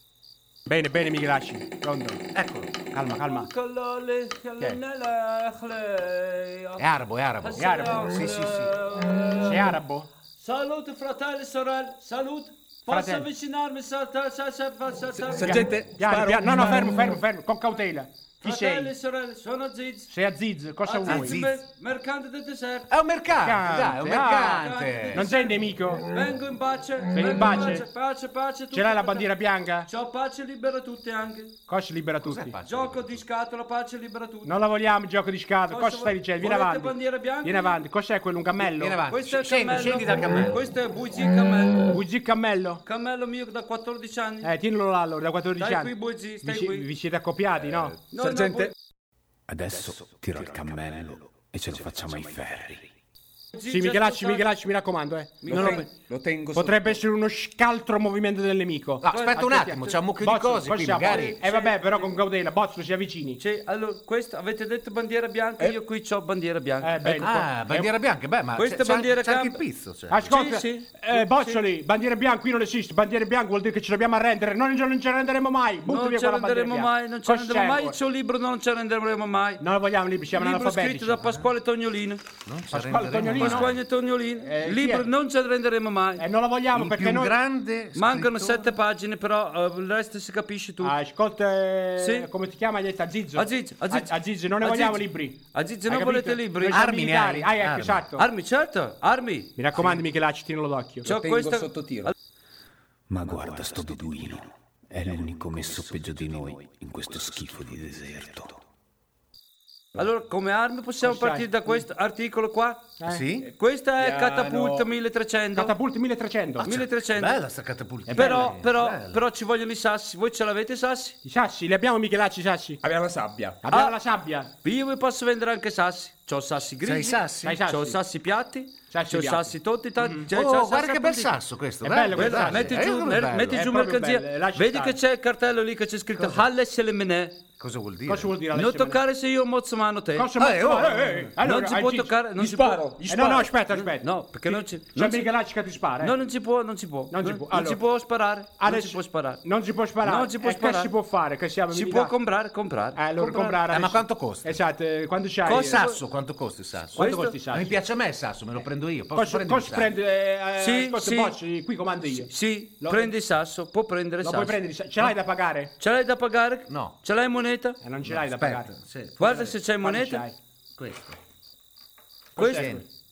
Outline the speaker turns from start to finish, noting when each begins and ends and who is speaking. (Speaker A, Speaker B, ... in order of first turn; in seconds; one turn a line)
Speaker A: 0.7-2.2
Speaker B: 2.3-2.7
Speaker A: 2.9-3.5
Speaker C: 3.1-6.9
Speaker B: 6.8-8.7
Speaker C: 7.4-9.8
Speaker A: 7.6-8.0
Speaker A: 9.4-10.1
Speaker C: 10.4-15.7
Speaker A: 12.9-13.2
Speaker D: 15.2-17.2
Speaker A: 15.4-18.9
Speaker C: 18.4-20.1
Speaker A: 20.1-21.4
Speaker C: 20.8-22.9
Speaker B: 21.1-21.6
Speaker B: 22.9-25.2
Speaker A: 23.4-26.0
Speaker C: 24.4-29.3
Speaker A: 27.1-27.8
Speaker A: 28.7-29.9
Speaker C: 29.9-31.6
Speaker A: 31.7-32.5
Speaker B: 32.2-33.2
Speaker C: 32.6-34.5
Speaker A: 34.4-39.0
Speaker C: 35.7-37.8
Speaker B: 38.6-40.6
Speaker C: 39.1-42.0
Speaker A: 41.9-42.8
Speaker C: 42.8-44.5
Speaker A: 44.4-48.0
Speaker C: 45.6-46.9
Speaker C: 48.1-48.7
Speaker D: 48.1-48.7
Speaker E: 49.5-52.9
Speaker C: 53.5-54.5
Speaker A: 53.7-55.9
Speaker C: 55.4-55.9
Speaker D: 55.5-57.0
Speaker A: 56.5-63.4
Speaker B: 59.0-61.4
Speaker C: 59.1-60.0
Speaker C: 60.9-62.1
Speaker C: 63.4-67.3
Speaker A: 66.8-67.9
Speaker B: 67.2-70.3
Speaker C: 68.5-69.6
Speaker A: 70.1-77.9
Speaker C: 70.2-71.6
Speaker C: 75.8-79.6
Speaker A: 79.6-81.4
Speaker C: 80.3-82.2
Speaker B: 82.5-83.7
Speaker A: 82.7-83.7
Speaker C: 83.3-86.2
Speaker A: 84.4-85.1
Speaker A: 86.2-87.3
Speaker B: 86.7-88.7
Speaker C: 87.9-90.9
Speaker A: 90.8-98.2
Speaker C: 92.0-92.3
Speaker C: 93.3-96.8
Speaker B: 96.7-98.0
Speaker C: 98.2-99.5
Speaker A: 99.6-101.1
Speaker D: 101.0-102.1
Speaker C: 101.0-102.1
Speaker E: 103.1-108.6
Speaker C: 110.0-113.0
Speaker A: 111.0-111.8
Speaker B: 113.0-113.5
Speaker C: 113.5-115.7
Speaker D: 114.0-114.8
Speaker A: 115.5-116.7
Speaker C: 116.6-117.4
Speaker B: 116.6-119.2
Speaker A: 118.1-118.5
Speaker C: 118.1-121.1
Speaker A: 121.2-122.8
Speaker D: 122.8-123.6
Speaker A: 123.6-124.5
Speaker C: 124.6-131.3
Speaker B: 126.8-127.6
Speaker A: 127.4-128.0
Speaker A: 128.9-130.2
Speaker B: 130.3-133.6
Speaker A: 131.8-135.0
Speaker C: 132.1-137.3
Speaker B: 136.2-136.4
Speaker B: 137.6-138.3
Speaker A: 138.1-139.0
Speaker C: 138.5-140.3
Speaker A: 140.2-142.1
Speaker B: 140.4-141.3
Speaker C: 141.4-143.0
Speaker D: 142.4-143.5
Speaker A: 143.1-146.1
Speaker C: 143.7-145.3
Speaker C: 146.0-149.4
Speaker A: 147.1-147.8
Speaker A: 148.6-152.1
Speaker C: 150.0-150.9
Speaker C: 151.7-153.0
Speaker A: 152.9-155.8
Speaker B: 153.2-154.6
Speaker B: 155.4-159.9
Speaker C: 155.5-156.0
Speaker C: 156.9-157.3
Speaker A: 156.9-157.8
Speaker A: 159.1-163.1
Speaker C: 160.6-161.4
Speaker C: 162.1-165.1
Speaker A: 164.2-165.7
Speaker C: 165.8-167.8
Speaker B: 166.7-166.9
Speaker A: 167.8-168.7
Speaker B: 168.0-169.5
Speaker C: 169.2-170.2
Speaker A: 169.8-170.3
Speaker B: 170.8-171.2
Speaker A: 172.3-172.8
Speaker C: 172.4-172.8
Speaker B: 172.4-172.8